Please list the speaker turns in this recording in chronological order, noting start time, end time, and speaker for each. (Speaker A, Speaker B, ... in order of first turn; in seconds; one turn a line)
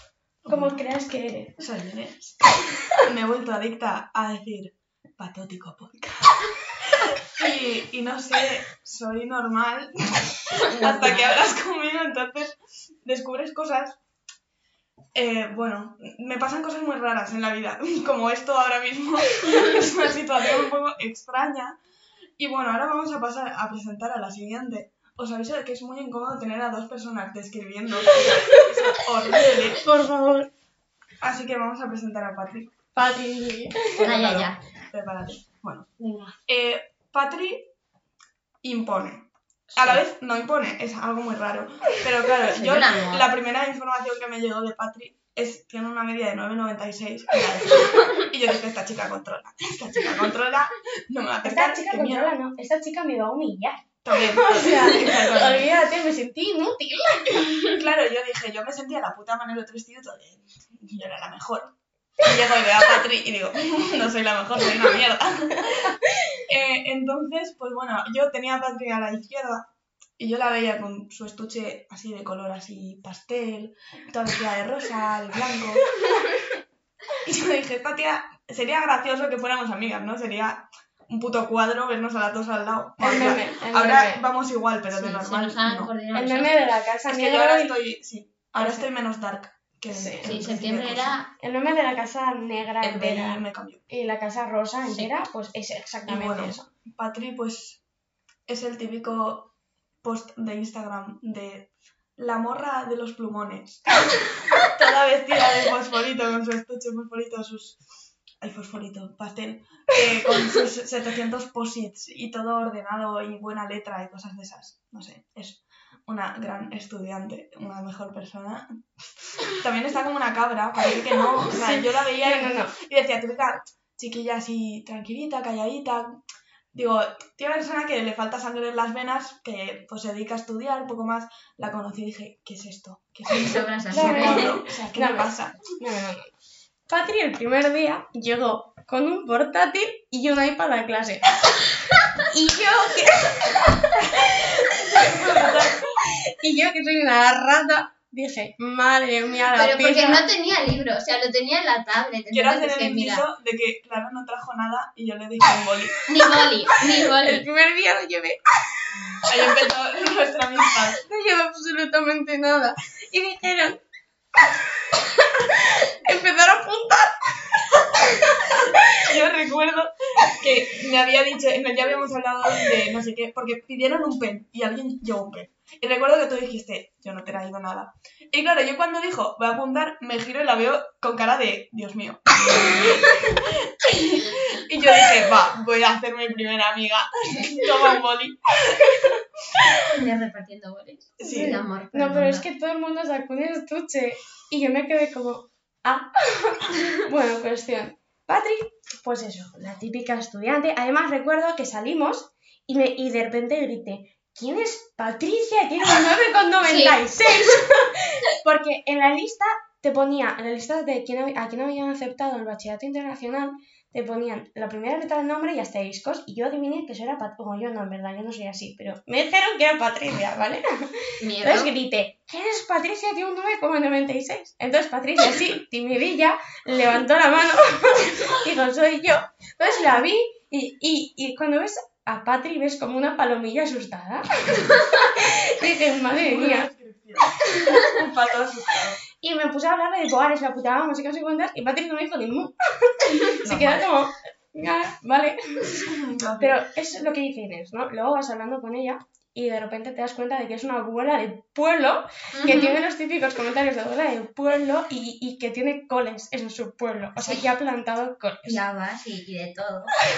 Speaker A: 0.4-0.8
Speaker B: 0.5-1.6
Speaker A: 1.6-14.0
Speaker C: 10.9-11.2
Speaker A: 15.1-21.8
Speaker A: 22.4-29.8
Speaker B: 28.2-30.5
Speaker A: 31.2-32.7
Speaker B: 32.9-34.1
Speaker C: 34.0-34.6
Speaker A: 34.0-35.9
Speaker C: 36.0-36.3
Speaker A: 36.5-37.7
Speaker A: 38.6-52.3
Speaker C: 39.7-40.0
Speaker C: 42.4-43.3
Speaker B: 51.4-57.5
Speaker A: 54.0-55.8
Speaker A: 57.6-75.9
Speaker A: 77.2-85.9
Speaker B: 83.0-84.2
Speaker C: 84.9-86.8
Speaker B: 86.1-87.8
Speaker A: 87.1-91.2
Speaker B: 88.6-88.8
Speaker B: 89.9-90.3
Speaker C: 90.2-91.3
Speaker B: 91.4-96.7
Speaker A: 92.8-93.8
Speaker A: 96.0-97.8
Speaker A: 98.5-107.8
Speaker A: 108.4-126.2
Speaker B: 121.5-122.8
Speaker A: 126.7-135.6
Speaker C: 133.3-134.6
Speaker B: 133.9-136.3
Speaker B: 136.9-141.4
Speaker B: 142.2-145.7
Speaker A: 144.0-145.9
Speaker B: 146.3-150.2
Speaker C: 149.5-153.3
Speaker A: 152.3-156.2
Speaker C: 156.1-157.4
Speaker B: 157.0-158.4
Speaker A: 159.3-161.0
Speaker B: 161.0-163.8
Speaker B: 165.0-169.1
Speaker A: 168.5-189.7
Speaker C: 189.8-192.5
Speaker A: 191.2-191.6
Speaker B: 191.2-220.7
Speaker C: 206.6-207.7
Speaker C: 221.2-221.7
Speaker B: 221.4-236.7
Speaker A: 236.1-239.0
Speaker B: 239.2-245.8
Speaker A: 243.4-243.8
Speaker A: 245.7-246.6
Speaker B: 246.4-258.6
Speaker C: 252.3-252.8
Speaker C: 257.2-257.5
Speaker C: 258.4-260.0